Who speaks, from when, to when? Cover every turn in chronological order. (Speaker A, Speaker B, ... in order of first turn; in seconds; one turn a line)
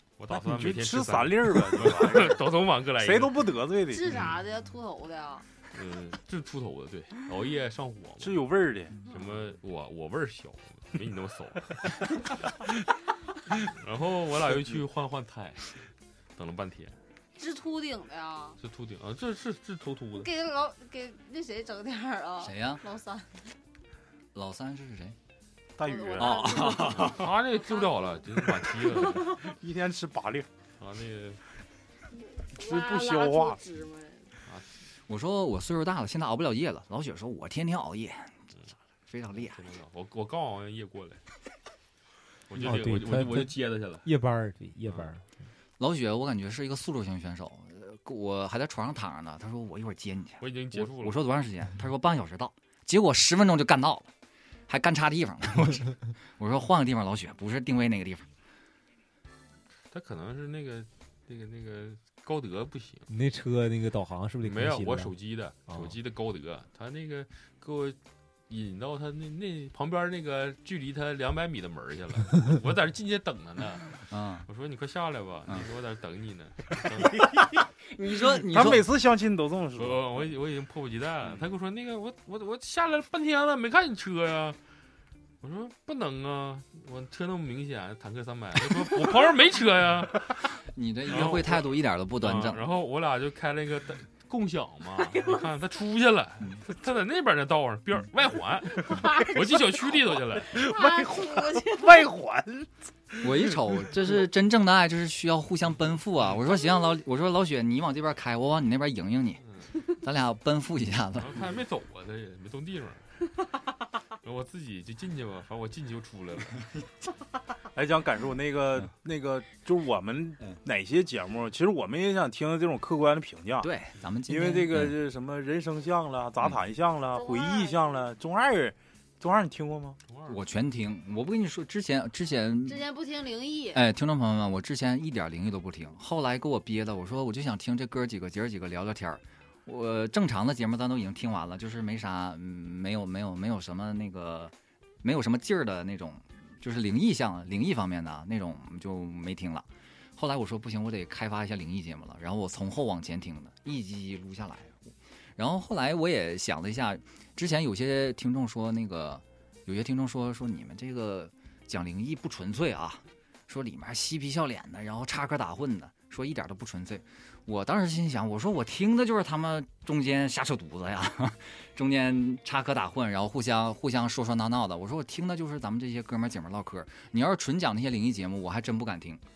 Speaker A: 0.2-3.5
Speaker B: 0.3-4.2
Speaker C: 3.9-5.4
Speaker A: 5.7-8.4
Speaker B: 8.2-9.0
Speaker A: 9.1-12.0
Speaker A: 13.5-15.8
Speaker A: 16.4-16.9
Speaker C: 17.4-18.6
Speaker A: 18.6-20.3
Speaker C: 20.1-23.4
Speaker D: 22.4-22.8
Speaker D: 24.3-25.1
Speaker B: 25.8-26.7
Speaker C: 25.8-28.2
Speaker D: 26.2-27.2
Speaker A: 26.9-29.4
Speaker B: 29.4-30.5
Speaker A: 30.8-31.4
Speaker C: 32.4-34.3
Speaker B: 32.5-33.6
Speaker D: 35.1-38.3
Speaker D: 39.1-39.6
Speaker A: 39.3-41.2
Speaker A: 42.5-44.0
Speaker E: 42.5-45.2
Speaker D: 45.8-54.1
Speaker A: 50.4-51.3
Speaker D: 54.7-58.3
Speaker A: 59.9-63.0
Speaker E: 63.1-65.1
Speaker A: 64.4-68.0
Speaker E: 65.7-66.0
Speaker A: 68.5-77.2
Speaker D: 74.1-74.5
Speaker D: 77.9-78.8
Speaker B: 78.4-80.2
Speaker A: 79.8-84.6
Speaker A: 85.4-90.3
Speaker D: 90.7-92.6
Speaker A: 91.1-91.7
Speaker A: 92.2-100.5
Speaker C: 95.0-95.4
Speaker C: 98.8-99.3
Speaker B: 100.5-103.8
Speaker C: 100.5-102.1
Speaker D: 103.2-109.4
Speaker D: 110.0-111.4
Speaker A: 111.2-113.0
Speaker A: 114.2-116.7
Speaker B: 117.7-123.7
Speaker D: 123.6-124.9
Speaker B: 124.3-130.0
Speaker C: 127.1-128.1
Speaker A: 130.1-130.4
Speaker D: 130.2-132.8
Speaker C: 132.7-133.8
Speaker D: 133.7-149.7
Speaker D: 150.2-179.2